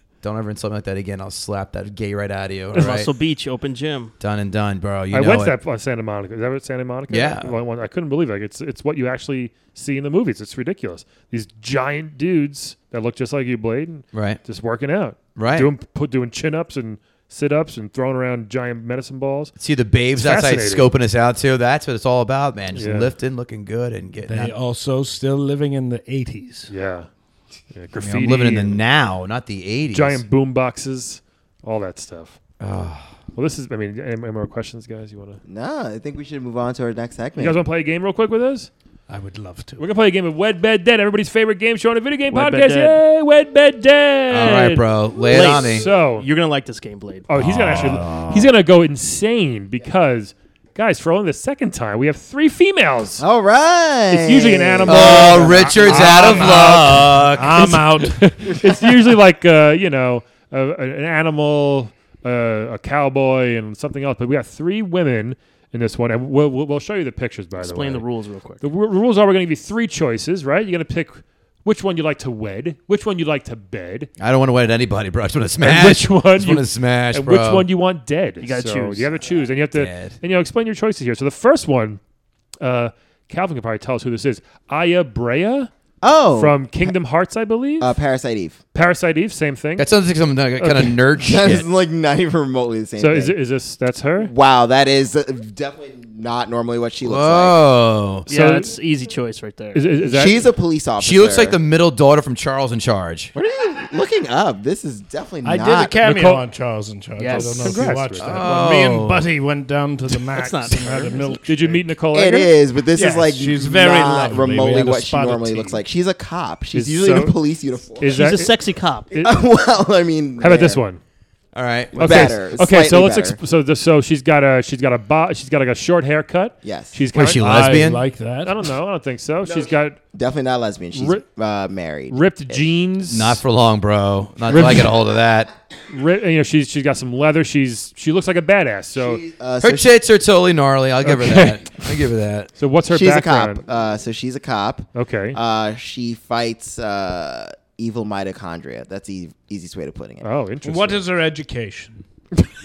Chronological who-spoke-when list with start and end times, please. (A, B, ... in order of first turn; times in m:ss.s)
0:00.2-0:03.1 A
0:02.7-0:04.1 B
0:04.2-0:05.6 A
0:05.1-0:19.6 C
0:07.1-0:07.5 A
0:14.1-0:14.4 A
0:15.4-0:15.7 A
0:19.6-0:24.6 A
0:20.2-0:20.9 C
0:22.7-0:23.1 C
0:24.3-0:26.7 D
0:26.7-0:27.1 C
0:27.7-0:28.8 C
0:28.0-0:30.2 A
0:29.9-0:32.4 C
0:32.6-0:33.2 A
0:33.4-0:35.4 C
0:35.4-0:37.6 E
0:37.4-0:38.7 C
0:39.1-0:39.9 D
0:39.8-0:46.3 C
0:42.3-0:43.0 B
0:44.3-0:45.9 A
0:45.3-0:47.3 B
0:47.3-0:53.2 C
0:47.4-0:48.5 A
0:53.2-0:55.7 E
0:54.1-1:08.1 C
0:54.9-0:57.8 A
0:55.8-0:58.3 D
1:07.6-1:08.6 B
1:08.6-1:14.1 C
1:14.2-1:17.7 A
1:15.6-1:22.0 C
1:18.4-1:19.1 B
1:19.7-1:20.2 A
1:22.6-1:25.7 C
1:26.0-1:26.9 E
1:26.4-1:28.0 C
1:27.8-1:28.6 E
1:28.7-1:29.9 C
1:29.8-1:31.7 A
1:30.6-1:31.0 C
1:31.2-1:33.4 E
1:33.0-1:34.3 C
1:34.2-1:37.6 E
1:37.0-1:38.3 A
1:38.3-1:40.0 B
1:38.3-1:38.8 C
1:39.7-1:40.5 C
1:40.0-1:41.6 E
1:41.0-1:43.3 A
1:43.4-1:46.0 E
1:45.4-1:51.8 D
1:46.0-1:46.4 C
1:47.2-1:47.9 B
1:47.3-1:48.4 C
1:48.2-1:49.3 A
1:50.3-1:51.5 B
1:51.5-1:52.5 C
1:52.1-1:58.4 E
1:52.9-1:55.8 D
1:56.7-1:57.4 C
1:58.0-1:58.6 C
1:58.1-1:59.2 B
1:59.1-1:59.4 C
1:59.2-2:00.8 E
2:00.4-2:01.0 C
2:01.5-2:02.4 A
2:02.0-2:07.9 C
2:02.0-2:03.4 E
2:06.6-2:07.0 E
2:07.1-2:08.0 A
2:07.3-2:08.6 D
2:08.4-2:10.0 C
2:09.4-2:12.8 E
2:10.9-2:11.2 C
2:12.1-2:13.4 C
2:13.1-2:15.5 A
2:14.5-2:14.9 C
2:15.9-2:19.2 C
2:19.0-2:19.9 E
2:19.6-2:22.5 A
2:21.0-2:22.0 C
2:22.6-2:23.6 C
2:22.9-2:30.3 E
2:25.0-2:25.4 C
2:30.2-2:31.0 C
2:30.6-2:32.0 D